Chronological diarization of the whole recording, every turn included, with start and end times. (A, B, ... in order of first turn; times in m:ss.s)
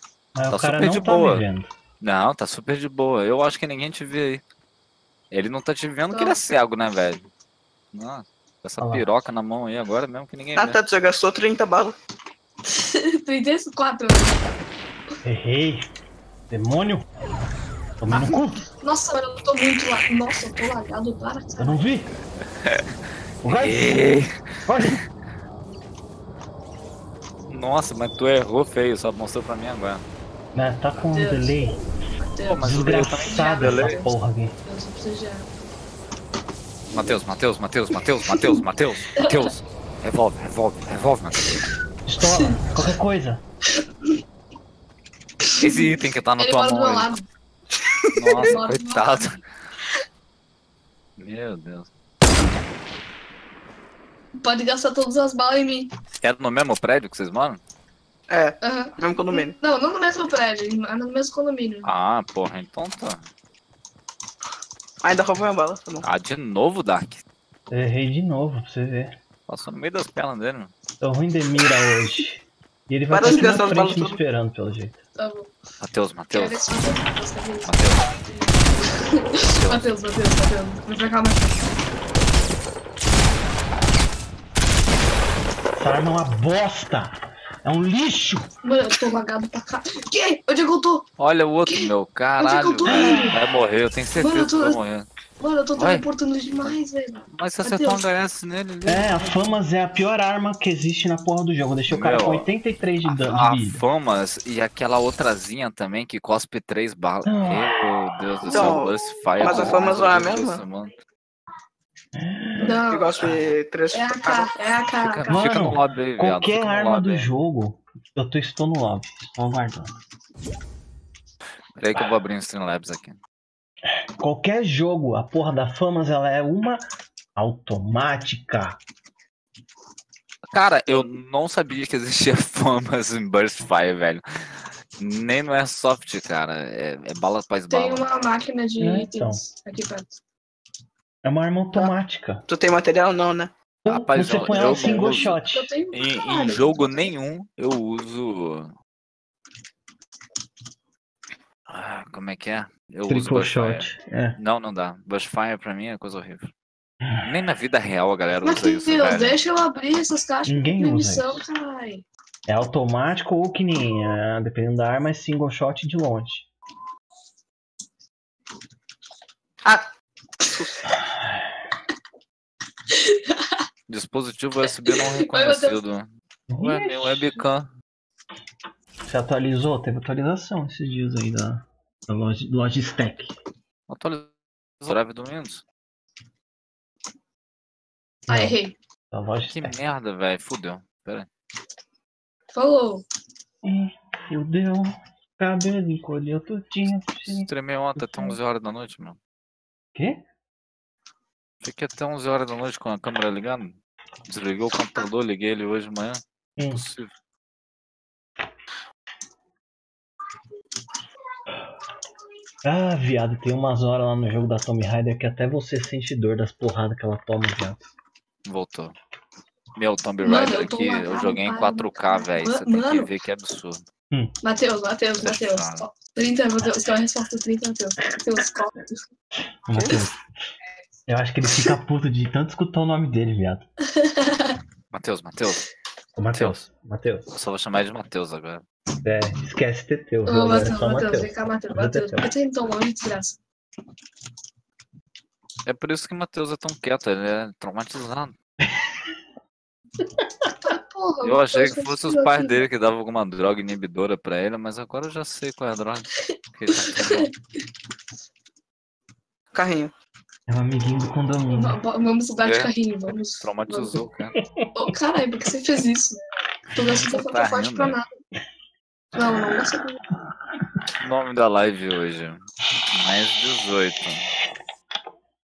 0:00.4-0:01.7 A
0:00.5-0:01.4 B
0:02.0-0:04.4 B
0:05.3-0:07.3 B
0:06.1-0:06.4 C
0:07.9-0:10.8 B
0:08.8-0:09.1 A
0:10.6-0:12.0 D
0:12.7-0:14.4 C
0:15.2-0:15.9 A
0:16.5-0:17.1 A
0:18.0-0:18.6 A
0:18.8-0:21.8 C
0:21.6-0:22.1 A
0:23.4-0:23.9 A
0:23.5-0:25.0 B
0:24.7-0:25.0 A
0:27.5-0:30.0 B
0:30.5-0:31.8 A
0:31.1-0:34.1 C
0:32.5-0:34.0 B
0:32.6-0:34.6 A
0:34.6-0:35.5 C
0:36.9-0:41.5 B
0:42.1-0:43.4 A
0:42.2-0:42.6 C
0:45.5-0:47.2 C
0:45.6-0:47.1 B
0:48.1-0:49.4 B
0:48.3-0:49.4 C
0:51.2-0:51.9 B
0:54.4-0:55.9 C
0:56.2-0:57.6 B
0:58.3-0:59.6 D
0:58.6-1:01.9 C
1:01.8-1:03.3 B
1:05.0-1:06.0 D
1:06.0-1:07.2 B
1:07.7-1:09.2 A
1:09.5-1:10.7 B
1:11.0-1:15.0 A
1:13.1-1:14.2 D
1:15.2-1:15.5 C
1:15.8-1:16.6 B
1:16.3-1:21.6 C
1:17.7-1:18.1 B
1:19.5-1:19.8 B
1:25.8-1:28.5 A
1:28.6-1:31.1 C
1:31.2-1:35.1 B
1:31.7-1:33.4 C
1:32.9-1:33.4 A
1:34.2-1:34.8 C
1:35.4-1:38.0 C
1:35.8-1:36.0 B
1:37.3-1:39.2 B
1:38.9-1:43.8 A
1:41.9-1:42.5 B
1:43.0-1:50.9 B
1:47.3-1:48.7 A
1:48.5-1:50.6 D
1:52.2-1:53.4 A
1:52.6-1:54.5 D
1:52.6-1:53.3 C
1:53.9-1:55.8 C
1:55.0-1:57.3 B
1:55.3-2:00.0 A
2:01.8-2:03.2 B
2:04.1-2:06.8 A
2:07.4-2:08.8 A
2:10.5-2:18.1 B
2:17.7-2:20.1 C
2:18.8-2:19.4 A
2:21.2-2:22.4 A
2:22.5-2:23.5 D
2:23.8-2:25.7 A
2:23.9-2:25.4 B
2:24.5-2:27.0 C
2:25.9-2:28.7 B
2:31.7-2:36.5 B
2:33.1-2:34.4 A
2:37.2-2:39.4 B
2:38.4-2:42.0 C
2:40.4-2:41.4 A
2:42.5-2:46.5 A
2:49.6-2:49.9 D
2:50.5-2:50.9 D
2:51.0-2:51.4 A
2:52.9-2:53.6 C
2:53.9-2:57.7 B
2:54.9-2:55.8 C
2:56.5-2:57.4 A
2:59.1-3:03.4 A
3:03.9-3:05.6 B
3:08.3-3:08.8 C
3:08.3-3:08.6 A
3:09.1-3:09.8 A
3:09.4-3:11.3 B
3:12.5-3:13.0 C
3:13.6-3:18.4 A
3:17.3-3:19.2 B
3:19.9-3:20.2 A
3:21.6-3:27.1 B
3:26.6-3:26.8 A
3:32.6-3:37.9 A
3:38.5-3:39.0 B
3:39.8-3:43.8 B
3:40.2-3:43.1 C
3:44.4-3:49.0 C
3:45.2-3:45.8 B
3:49.6-3:50.2 A
3:51.1-3:53.7 A
3:53.9-3:54.6 C
3:54.9-3:55.6 B
3:56.2-3:57.3 A
3:56.3-3:56.7 B
3:57.3-3:58.6 B
3:59.0-4:02.3 A
4:00.3-4:03.4 C
4:05.6-4:08.4 B
4:10.6-4:12.6 C
4:11.2-4:17.3 B
4:16.7-4:17.3 C
4:19.5-4:19.9 D
4:20.5-4:21.8 A
4:21.5-4:24.0 C
4:22.4-4:24.4 B
4:24.4-4:24.9 A
4:24.7-4:26.2 C
4:26.7-4:28.1 C
4:26.8-4:28.0 B
4:29.1-4:30.0 C
4:31.0-4:32.4 B
4:32.9-4:34.3 B